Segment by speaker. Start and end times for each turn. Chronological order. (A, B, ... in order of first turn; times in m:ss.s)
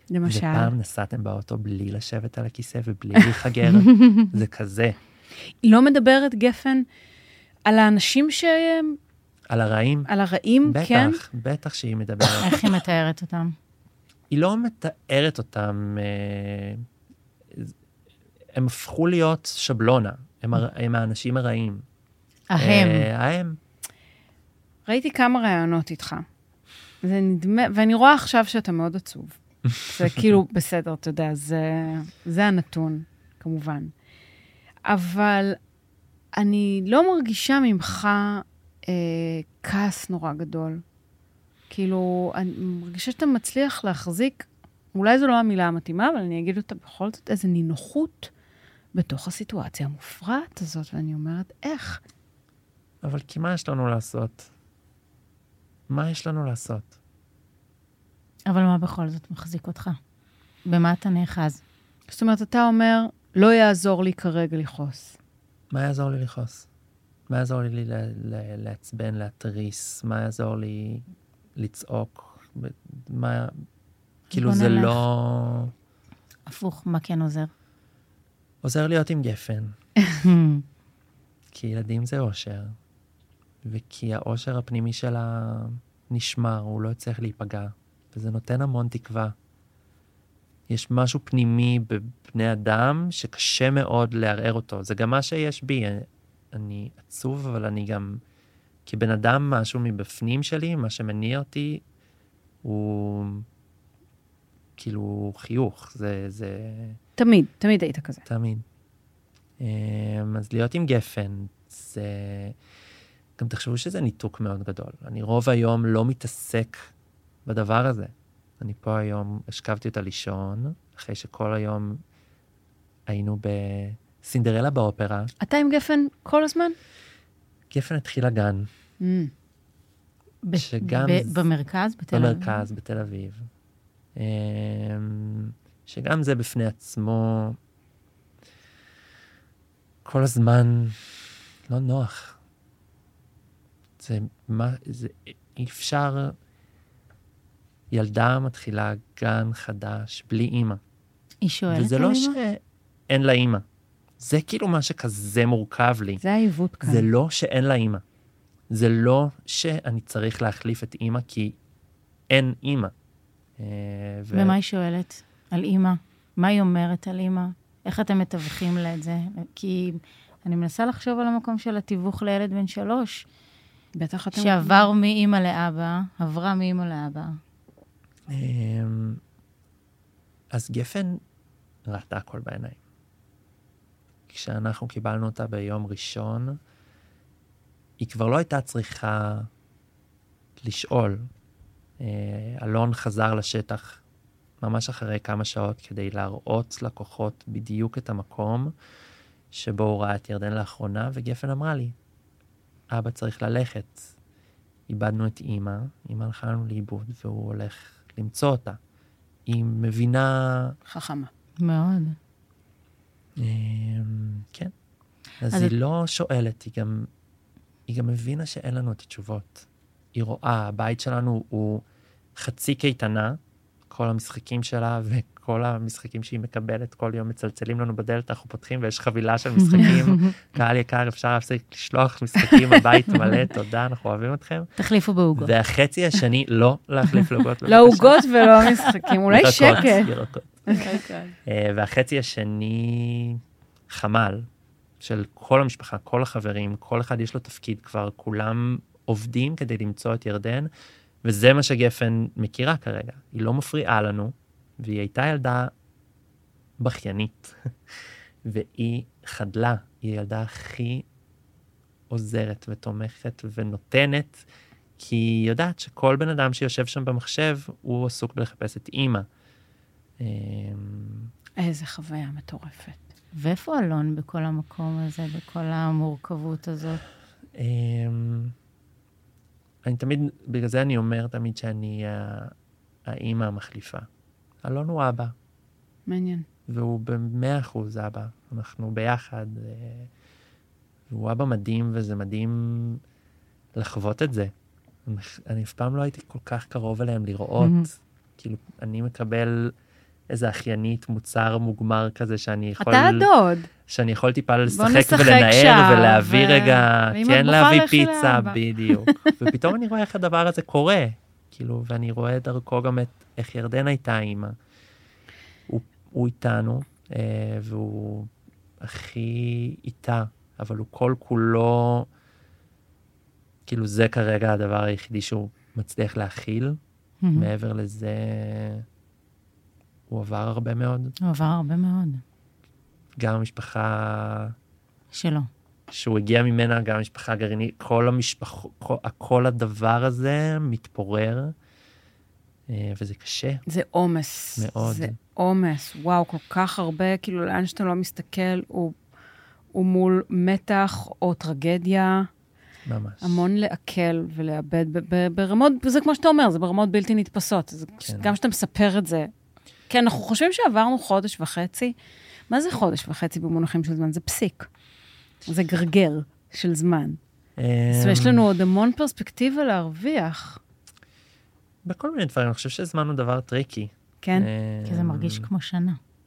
0:00.1-0:00.7 A
0:00.3-0:05.0 B
0:03.8-0:04.2 C
0:05.6-0:06.8 A
0:07.7-0:09.0 A
0:09.5-0:10.1 B
0:10.1-0:11.2 A
0:10.6-0:12.8 B
0:12.4-0:13.6 C
0:14.3-0:16.8 B
0:18.5-0:21.8 B
0:22.5-0:23.1 C
0:22.6-0:23.6 B
0:24.9-0:26.3 A
0:27.0-0:33.9 A
0:34.9-0:35.6 A
0:36.4-0:40.8 A
0:41.7-0:48.3 A
0:48.9-0:52.0 A
0:53.0-0:54.5 B
0:55.9-0:56.9 B
0:58.5-1:00.0 C
1:00.7-1:01.6 C
1:02.1-1:05.2 A
1:05.7-1:06.7 B
1:07.3-1:11.0 B
1:11.6-1:13.5 B
1:14.3-1:15.0 C
1:14.3-1:15.7 B
1:16.5-1:17.5 C
1:18.6-1:19.7 B
1:20.2-1:20.6 C
1:21.5-1:22.8 B
1:23.6-1:29.3 B
1:30.7-1:38.2 B
1:38.9-1:41.8 B
1:42.6-1:43.5 B
1:44.8-1:47.0 B
1:47.2-1:48.2 A
1:48.3-1:48.7 B
1:49.6-1:52.6 B
1:53.4-1:56.9 B
1:57.4-2:02.0 B
2:03.1-2:05.3 B
2:05.4-2:06.8 A
2:07.7-2:08.7 B
2:09.0-2:09.3 A
2:10.4-2:12.6 C
2:10.6-2:11.5 B
2:12.1-2:13.5 B
2:14.2-2:17.6 B
2:20.0-2:22.4 B
2:24.0-2:26.4 B
2:27.9-2:30.8 B
2:31.4-2:32.4 C
2:31.7-2:33.6 B
2:34.2-2:36.2 B
2:36.2-2:37.1 A
2:36.8-2:38.0 B
2:38.7-2:41.6 B
2:42.3-2:42.9 B
2:43.6-2:44.6 B
2:44.3-2:53.2 C
2:54.0-2:54.9 A
2:54.3-2:57.4 C
2:58.3-2:59.2 B
3:00.5-3:01.2 B
3:01.9-3:02.8 B
3:04.3-3:06.6 B
3:08.0-3:09.5 B
3:10.6-3:11.3 B
3:12.0-3:14.0 B
3:14.6-3:18.7 B
3:19.5-3:22.0 B
3:22.9-3:24.1 B
3:24.9-3:28.8 B
3:29.5-3:30.8 B
3:30.9-3:31.3 A
3:31.6-3:32.2 C
3:33.4-3:34.7 B
3:35.4-3:37.1 B
3:37.9-3:41.8 B
3:42.4-3:54.7 B
3:49.6-3:50.3 C
3:54.8-3:55.5 C
3:55.4-3:58.6 B
3:57.7-4:00.1 A
3:59.3-4:00.8 B
4:00.7-4:01.3 C
4:01.4-4:04.5 B
4:05.0-4:10.7 B
4:11.2-4:15.7 B
4:16.8-4:17.7 B
4:18.4-4:21.1 B
4:22.1-4:24.4 B
4:25.0-4:29.3 B
4:30.2-4:31.3 B
4:31.6-4:33.1 A
4:33.4-4:37.0 C
4:37.6-4:38.6 B
4:39.8-4:42.5 B
4:43.1-4:44.1 B
4:44.6-4:45.4 B
4:46.1-4:46.5 A
4:46.7-4:50.1 B
4:51.1-4:53.0 B
4:53.8-4:54.5 B
4:55.1-4:59.7 B
4:57.6-4:57.9 C
5:00.3-5:03.3 B
5:02.8-5:03.7 A
5:03.9-5:14.5 B
5:04.7-5:09.3 A
5:15.7-5:22.1 B
5:23.7-5:26.8 B
5:27.2-5:27.5 C
5:27.3-5:28.9 B
5:30.1-5:31.2 B
5:31.2-5:32.2 C
5:33.2-5:34.6 B
5:35.1-5:35.5 C
5:35.9-5:41.6 B
5:42.7-5:43.6 B
5:43.7-5:48.9 A
5:44.6-5:45.2 B
5:49.7-5:52.3 A
5:52.9-5:53.5 B
5:53.2-5:59.3 A
5:58.0-5:58.3 B
5:59.9-6:01.9 A
6:02.5-6:04.7 A
6:05.4-6:07.2 A
6:07.6-6:08.4 B
6:07.9-6:10.6 A
6:11.8-6:15.5 B
6:14.2-6:14.5 A
6:14.9-6:16.0 C